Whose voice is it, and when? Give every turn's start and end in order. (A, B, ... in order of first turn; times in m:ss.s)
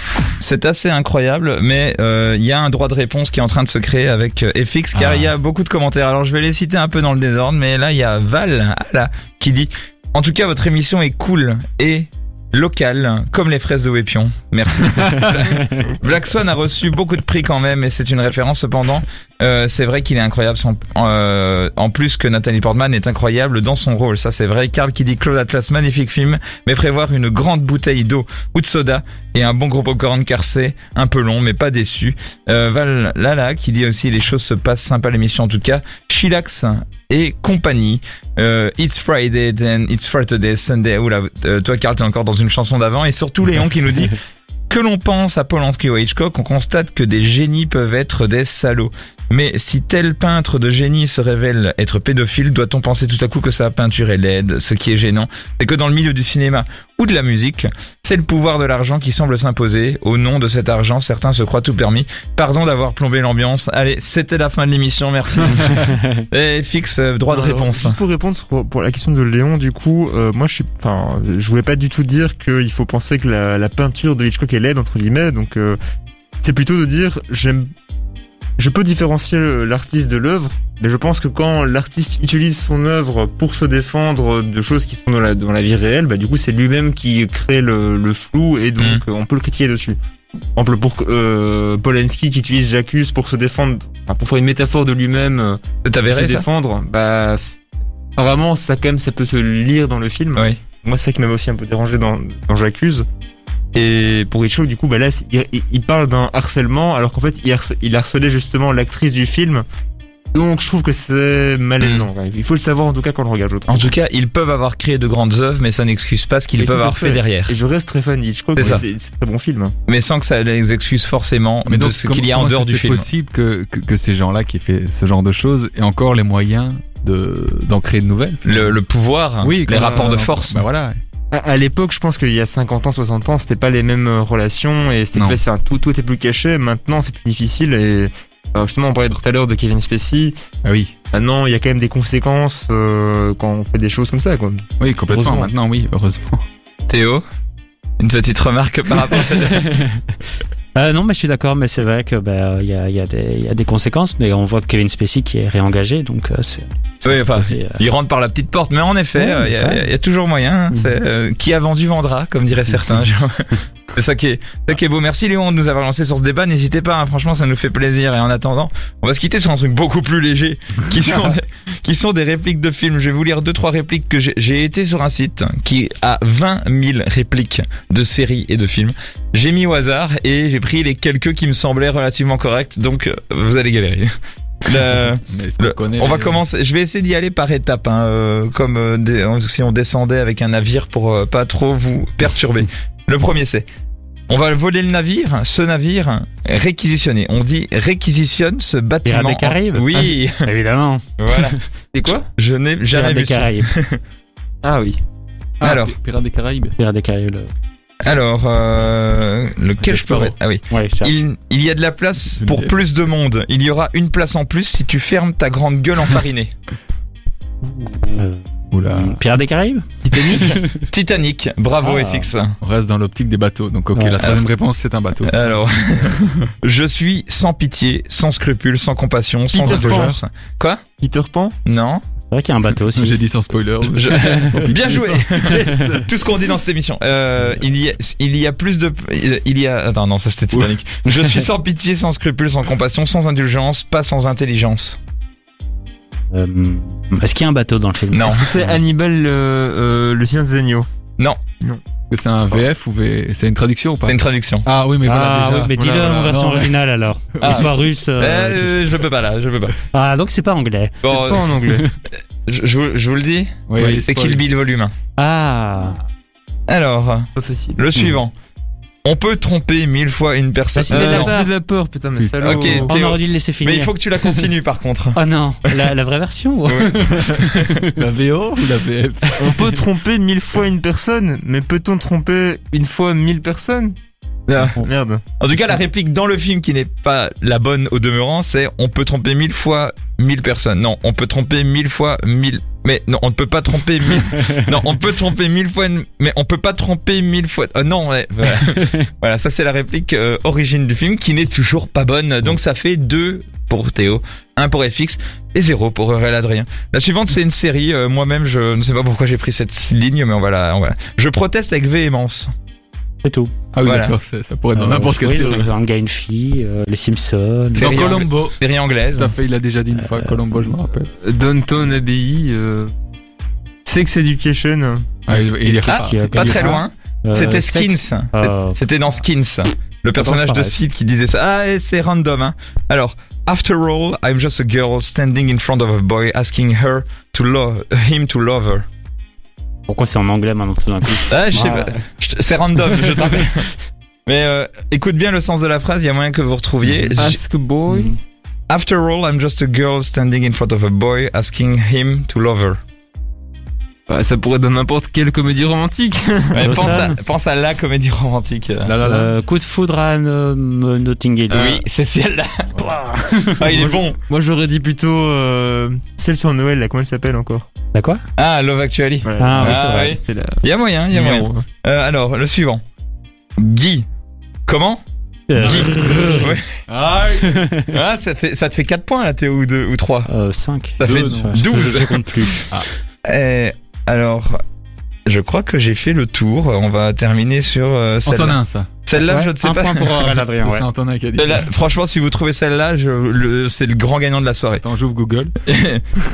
0:00.4-0:44.2 A
0:44.7-1:08.0 A
1:07.3-1:15.8 B
1:16.4-1:17.7 B
1:18.6-1:30.0 B
1:28.8-1:29.0 A
1:30.6-1:37.5 B
1:35.8-1:36.5 A
1:38.2-1:43.0 B
1:43.7-1:49.6 B
1:50.3-1:53.9 B
1:51.8-1:52.1 A
1:53.7-1:57.5 A
1:56.6-1:59.7 B
1:58.6-1:58.8 A
1:59.9-2:03.1 A
2:01.6-2:08.8 C
2:08.4-2:10.6 A
2:09.4-2:11.0 C
2:09.7-2:10.3 B
2:11.3-2:20.4 B
2:20.6-2:20.9 C
2:21.1-2:25.5 B
2:24.8-2:26.4 C
2:26.9-2:27.2 A
2:28.0-2:29.8 A
2:30.7-2:37.8 D
2:37.0-3:04.1 A
2:39.2-2:39.8 D
3:04.6-3:13.7 A
3:05.3-3:06.4 C
3:14.3-3:20.4 A
3:19.0-3:21.6 D
3:21.2-3:21.5 A
3:21.9-3:22.2 B
3:22.3-3:24.0 A
3:22.9-3:23.7 D
3:24.6-3:25.0 B
3:25.6-3:26.8 C
3:25.6-3:26.0 A
3:26.8-3:27.5 D
3:28.0-3:36.5 A
3:29.8-3:30.3 C
3:30.7-3:31.2 D
3:32.3-3:32.8 C
3:37.6-3:38.2 B
3:38.2-3:40.6 D
3:38.7-3:39.2 C
3:40.0-3:40.6 B
3:40.9-3:42.6 A
3:41.8-3:42.3 D
3:42.6-3:45.4 C
3:43.9-3:44.3 D
3:44.2-3:44.4 A
3:45.2-3:50.8 A
3:46.1-3:46.4 C
3:49.5-3:50.2 B
3:49.6-3:50.1 C
3:51.0-3:51.5 B
3:51.6-3:52.0 A
3:52.3-3:53.2 D
3:52.9-3:55.9 C
3:53.9-4:05.0 A
3:54.1-3:54.6 D
3:55.4-3:56.0 D
4:06.3-4:08.7 D
4:08.1-4:08.4 A
4:08.3-4:10.9 B
4:12.1-4:15.7 C
4:14.0-4:14.6 A
4:15.0-4:18.8 D
4:15.8-4:16.5 B
4:16.3-4:16.7 C
4:17.4-4:19.8 A
4:19.9-4:21.0 D
4:21.0-4:21.4 A
4:21.1-4:21.9 B
4:22.5-4:24.9 A
4:23.7-4:24.4 C
4:25.2-4:26.0 D
4:26.7-4:28.3 A
4:27.4-4:27.8 B
4:29.0-4:31.4 A
4:30.8-4:31.5 D
4:30.9-4:32.9 B
4:32.2-4:32.8 C
4:32.4-4:35.2 A
4:32.9-4:33.9 D
4:35.1-4:38.0 D
4:36.7-4:37.7 A
4:37.9-4:39.6 C
4:39.4-4:44.0 B
4:44.5-4:44.8 A
4:44.8-4:45.2 B
4:45.4-5:12.5 A
5:13.2-5:13.5 D
5:13.7-5:15.7 C
5:13.8-5:14.2 A
5:14.7-5:18.2 D
5:17.7-5:18.6 C
5:17.8-5:19.3 A
5:19.1-5:21.1 C
5:21.2-5:22.9 B
5:23.8-5:25.0 B
5:25.3-5:26.7 C
5:25.3-5:28.8 D
5:25.9-5:38.8 A
5:30.2-5:30.8 D
5:39.9-5:42.0 D
5:41.3-5:43.6 A
5:44.3-5:47.4 A
5:47.1-5:48.1 B
5:47.9-5:48.1 D
5:48.7-5:52.8 A
5:54.1-5:57.0 B
5:56.5-5:58.9 A
5:56.6-5:57.2 D
5:58.8-5:59.3 C
5:59.0-6:01.8 D
6:01.5-6:02.6 A
6:02.8-6:03.4 D
6:03.6-6:04.2 A
6:03.6-6:07.7 B
6:07.9-6:08.2 D
6:08.4-6:12.8 A
6:09.2-6:11.6 B
6:09.4-6:10.2 D
6:13.6-6:14.1 A
6:14.7-6:15.0 A
6:15.5-6:16.6 D
6:15.6-6:16.6 A
6:16.9-6:17.7 C
6:17.4-6:17.9 D
6:17.9-6:20.3 A
6:20.2-6:22.7 D
6:21.0-6:22.6 A
6:21.0-6:21.8 C
6:23.2-6:24.6 A
6:25.2-6:30.4 A
6:28.2-6:29.0 C
6:29.1-6:30.8 D
6:30.6-6:31.7 C
6:31.4-6:34.8 A
6:34.8-6:35.6 C
6:35.6-6:36.0 A